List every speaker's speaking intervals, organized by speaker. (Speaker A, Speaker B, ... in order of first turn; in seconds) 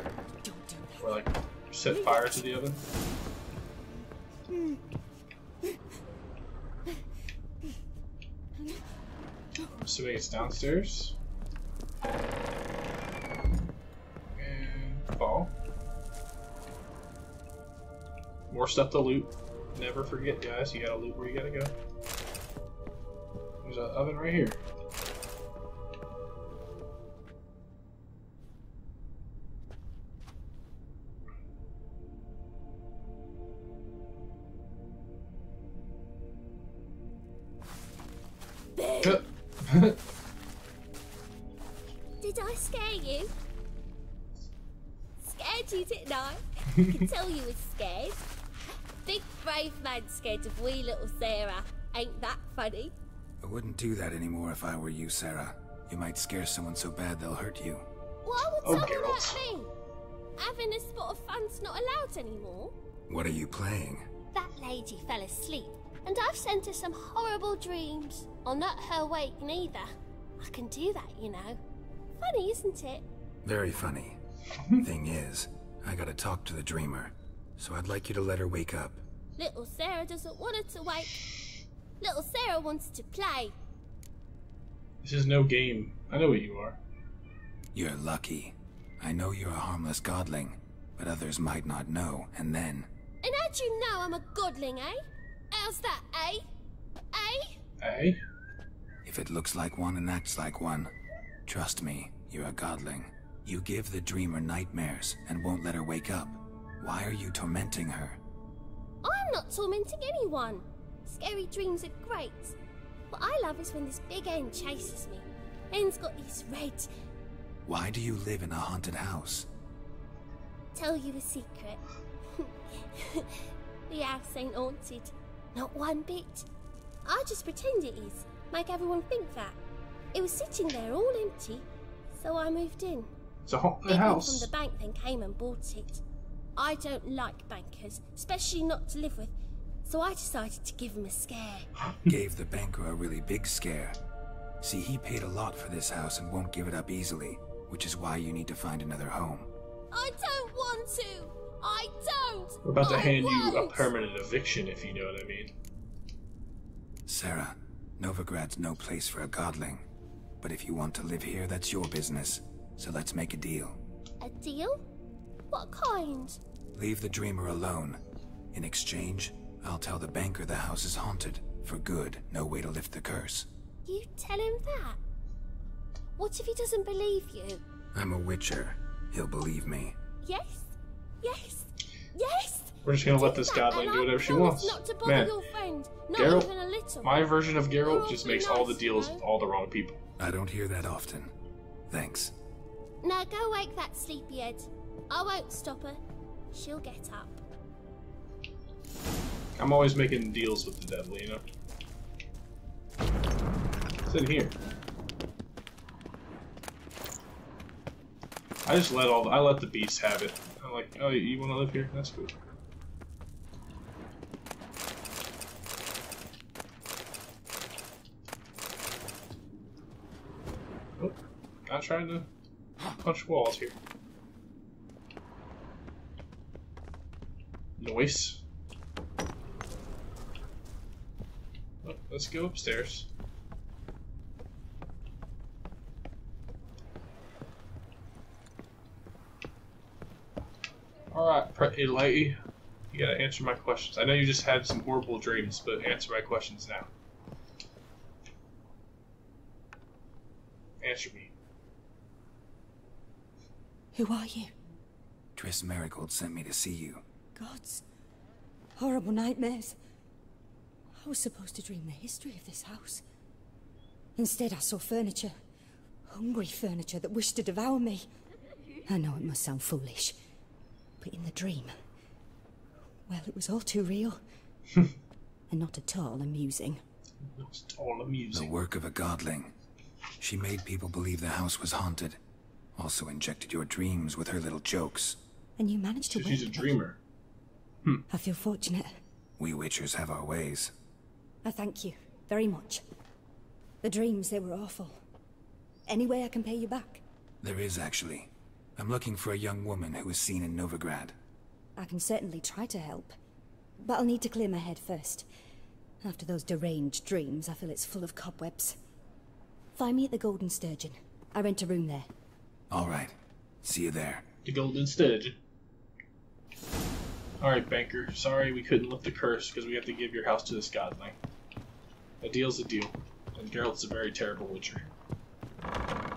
Speaker A: 0.4-1.2, 1.9-2.6, 253.9-254.5, 257.4-257.8, 258.8-259.8, 260.9-263.0, 264.1-265.3, 266.1-268.1, 268.9-270.2, 271.0-271.7, 273.1-274.2, 275.5-276.8, 285.6-286.8, 288.1-289.0, 291.4-292.8, 293.8-295.0, 295.9-297.0, 301.8-303.1, 303.8-305.3, 306.0-308.8, 309.7-312.1
Speaker B: 1.0-2.8, 9.7-11.2, 14.3-15.5, 18.5-21.7, 23.6-24.6, 39.0-40.0, 58.6-59.4, 85.0-86.8, 97.8-98.2, 133.4-134.5, 152.7-155.5, 182.8-185.3, 186.2-186.5, 187.0-190.0, 199.6-201.4, 204.1-204.6, 208.6-212.3, 221.0-222.3, 223.0-223.8, 227.8-228.4, 231.8-233.1, 241.1-242.4, 242.9-246.9, 250.8-251.3, 277.3-278.5, 286.1-287.0, 314.4-315.4, 317.4-321.2, 322.2-324.9
Speaker C: 38.7-39.2, 42.2-43.3, 45.2-48.2, 49.0-52.9, 58.2-59.7, 60.4-62.7, 64.3-71.6, 72.2-73.0, 79.4-81.4, 82.0-83.5, 93.2-96.4, 97.1-97.6, 109.0-112.5, 113.1-116.9, 120.7-121.8, 122.3-126.5, 127.0-129.6, 130.1-133.1, 133.9-136.0, 136.6-139.3, 139.8-141.7, 149.9-153.9, 164.2-164.8, 165.5-166.4, 173.8-175.0, 176.2-177.6, 180.2-189.2, 193.0-196.0, 196.5-197.4
Speaker D: 53.4-57.9, 63.1-64.0, 73.4-74.2, 74.8-79.0, 87.7-92.9, 99.0-100.9, 101.5-108.2, 117.6-119.5, 142.0-144.0, 144.6-149.5, 157.1-159.8, 160.4-163.8, 166.7-168.0, 168.5-173.5, 177.9-179.9, 190.2-191.3, 191.9-192.3, 255.3-257.0, 278.3-279.5, 280.2-282.2, 282.8-285.2, 289.4-290.7, 297.4-301.1, 312.7-314.2